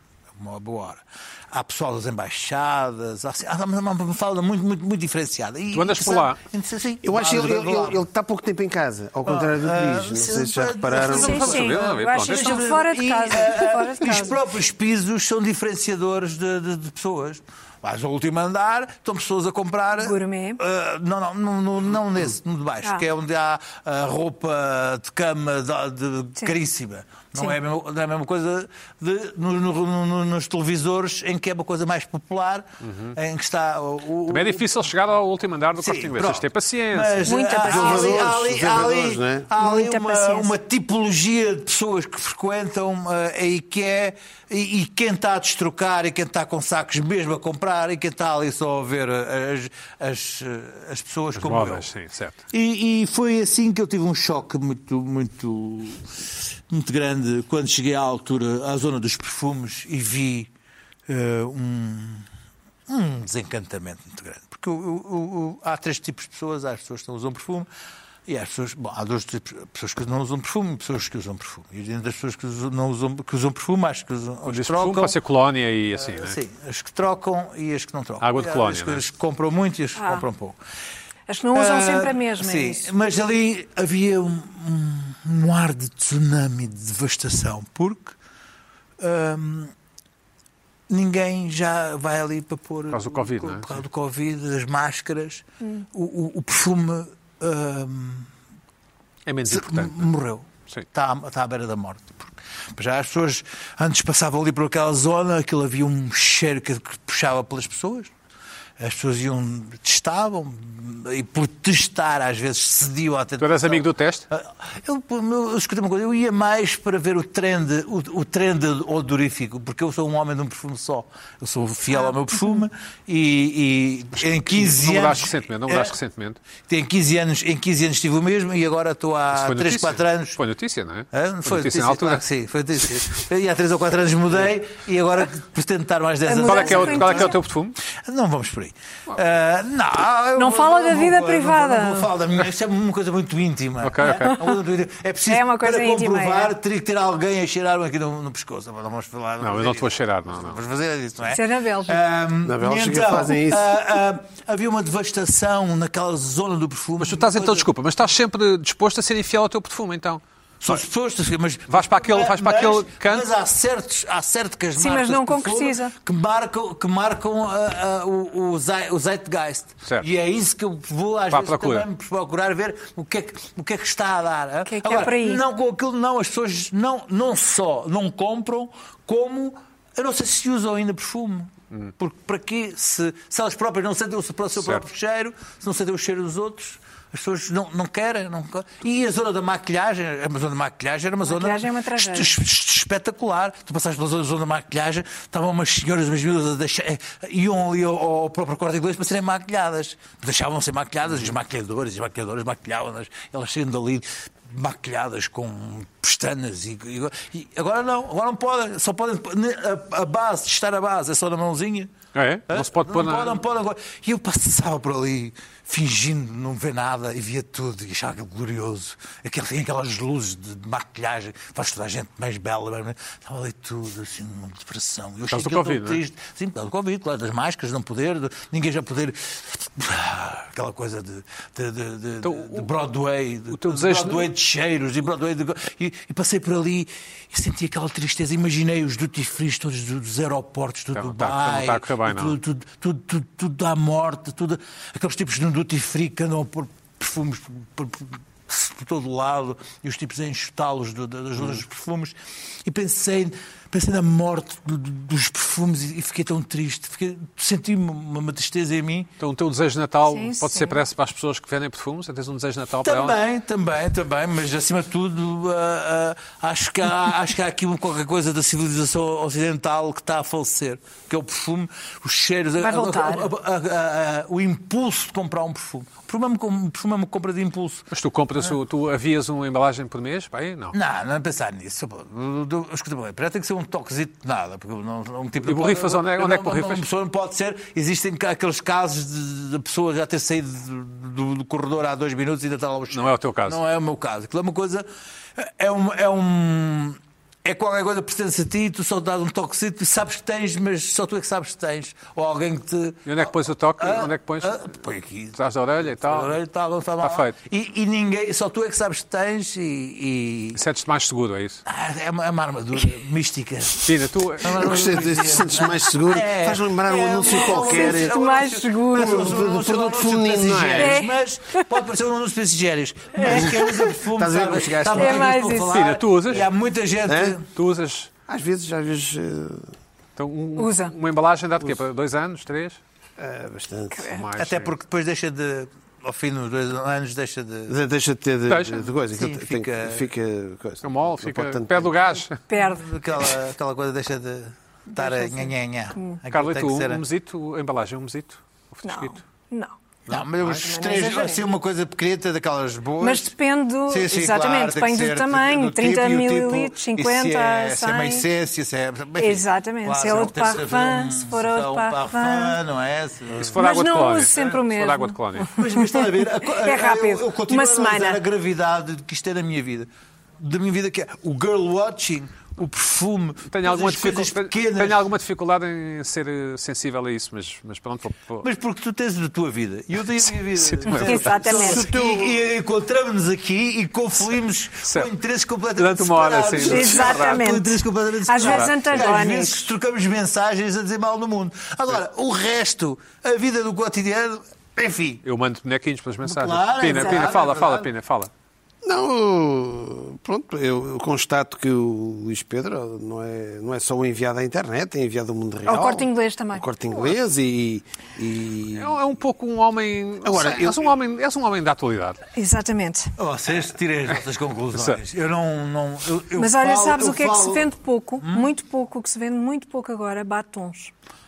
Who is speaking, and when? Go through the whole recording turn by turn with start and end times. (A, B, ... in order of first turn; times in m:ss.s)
0:00.3-0:08.0 A
0:05.7-0:06.4 B
0:07.0-0:11.5 C
0:09.2-0:34.7 A
0:10.9-0:14.4 D
0:11.1-0:12.6 B
0:20.0-0:20.6 D
0:32.8-0:33.1 B
0:34.3-0:37.4 B
0:35.8-0:51.9 A
0:37.2-0:38.2 D
0:37.7-0:39.5 C
0:39.6-0:40.5 D
0:51.3-0:52.4 B
0:52.5-1:00.5 A
1:01.1-1:02.2 A
1:02.9-1:07.7 A
1:08.3-1:15.2 A
1:14.4-1:16.4 B
1:16.0-1:20.6 A
1:18.2-1:19.0 B
1:20.0-1:20.2 D
1:21.3-1:22.9 D
1:21.5-1:28.2 A
1:29.0-1:29.7 A
1:30.9-1:38.3 A
1:32.9-1:33.8 B
1:39.2-1:40.1 B
1:39.5-1:48.1 A
1:48.8-2:05.9 A
1:53.4-1:54.2 B
2:01.9-2:02.6 D
2:04.2-2:06.4 B
2:06.7-2:10.4 A
2:09.3-2:12.2 B
2:11.1-2:17.4 A
2:16.3-2:17.4 D
2:16.4-2:17.8 B
2:17.9-2:37.7 A
2:20.4-2:22.1 D
2:23.8-2:24.4 B
2:25.3-2:26.5 D
2:29.4-2:30.6 B
2:31.3-2:32.0 D
2:32.4-2:33.7 C
2:37.0-2:40.7 B
2:40.6-3:31.9 A
2:41.7-2:43.3 B
2:44.8-2:45.9 D
2:51.3-2:51.9 B
2:54.6-2:55.4 D
3:11.3-3:12.4 D
3:32.1-3:33.4 B
3:32.5-4:19.1 A
3:45.3-3:46.0 B
3:52.2-3:52.7 B
3:53.5-3:54.3 B
4:00.9-4:02.4 B
4:19.2-4:23.2 B
4:20.0-4:20.8 D
4:22.8-4:37.9 A
4:32.6-4:33.3 D
4:37.9-4:40.7 B
4:40.7-5:05.4 A
4:45.4-4:46.8 B
4:52.9-4:53.6 B
5:03.0-5:04.7 B
5:05.3-5:06.3 B
5:05.9-5:10.6 A
5:07.0-5:07.4 B
5:10.5-5:11.6 B
5:11.6-5:27.4 A
5:13.8-5:15.0 B
5:14.5-5:18.1 C
5:17.2-5:19.3 D
5:18.9-5:21.0 C
5:20.7-5:21.7 D
5:23.1-5:24.0 D
5:23.2-5:25.4 C
5:24.9-5:25.8 D
5:25.7-5:26.5 B
5:27.1-5:27.4 C
5:27.4-5:28.1 B
5:28.3-5:29.7 C
5:30.2-5:32.8 B
5:30.6-5:30.9 D
5:33.2-5:34.1 C
5:33.9-5:34.2 D
5:34.1-5:34.7 B
5:34.3-5:37.8 A
5:37.7-5:41.9 C
5:38.5-5:38.9 B
5:39.1-5:40.1 A
5:40.8-5:42.4 B
5:42.5-5:42.8 D
5:42.5-5:47.0 A
5:44.9-5:46.2 D
5:46.3-5:49.2 B
5:48.8-5:49.7 D
5:50.1-5:50.6 B
5:50.1-5:53.3 A
5:50.5-5:51.4 D
5:53.0-5:58.2 D
5:53.9-6:03.6 A
5:59.2-6:02.6 D
6:03.3-6:05.5 B
6:03.6-6:08.2 D
6:05.5-6:15.0 A
6:13.5-6:18.5 B
6:18.4-6:35.2 A
6:20.7-6:21.3 B
6:20.8-6:21.9 D
6:21.5-6:22.4 C
6:24.8-6:25.1 B
6:25.8-6:27.4 B
6:26.6-6:29.6 D
6:28.4-6:28.7 B
6:35.2-6:38.3 B
6:36.2-6:37.9 A
6:38.8-6:49.0 C
6:45.6-6:46.7 D
6:48.7-6:52.2 B
6:50.2-6:50.9 C
6:52.3-6:53.1 D
6:53.2-6:58.5 A
6:54.7-6:55.0 B
6:56.4-7:00.9 D